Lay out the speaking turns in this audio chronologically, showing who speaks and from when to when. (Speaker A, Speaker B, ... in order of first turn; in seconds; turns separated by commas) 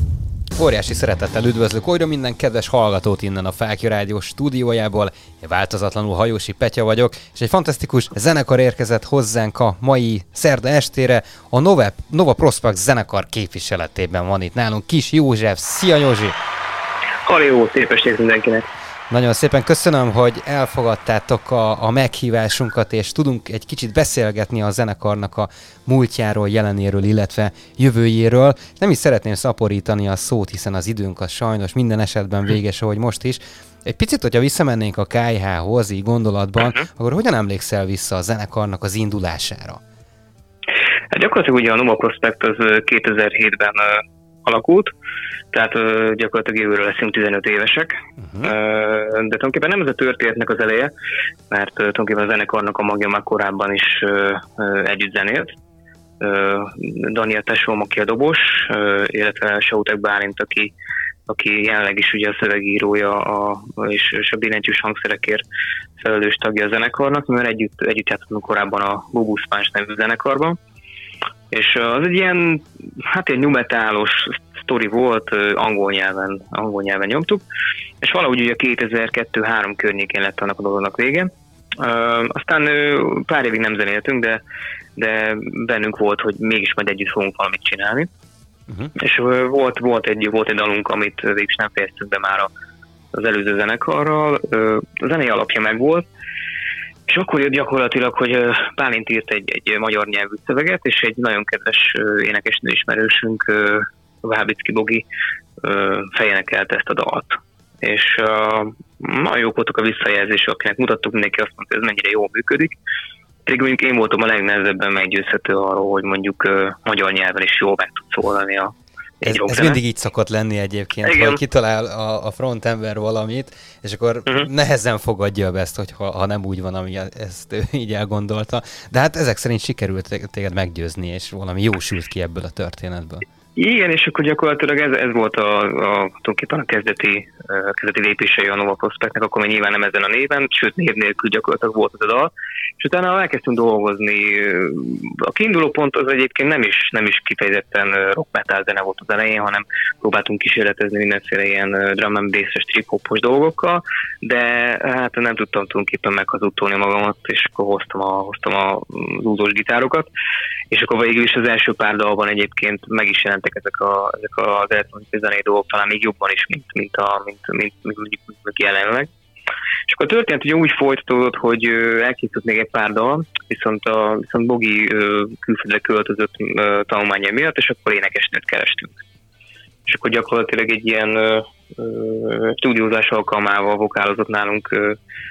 Speaker A: 0.6-16.4, Speaker B: 17.3-18.7, Speaker A: 19.1-39.8, Speaker B: 41.1-44.9, Speaker B: 45.5-50.9, Speaker A: 48.2-48.5, Speaker B: 51.5-55.5, Speaker B: 56.2-60.7, Speaker B: 61.3-65.4, Speaker B: 66.0-70.6, Speaker B: 71.5-77.4, Speaker B: 78.0-84.4, Speaker B: 85.0-88.1, Speaker B: 89.0-92.5, Speaker B: 93.1-96.1, Speaker B: 97.1-105.0, Speaker B: 105.6-112.8, Speaker B: 113.5-119.8, Speaker A: 119.2-133.3, Speaker B: 121.0-121.4, Speaker B: 133.6-160.1, Speaker B: 160.7-169.1, Speaker B: 169.9-179.0, Speaker B: 179.9-185.0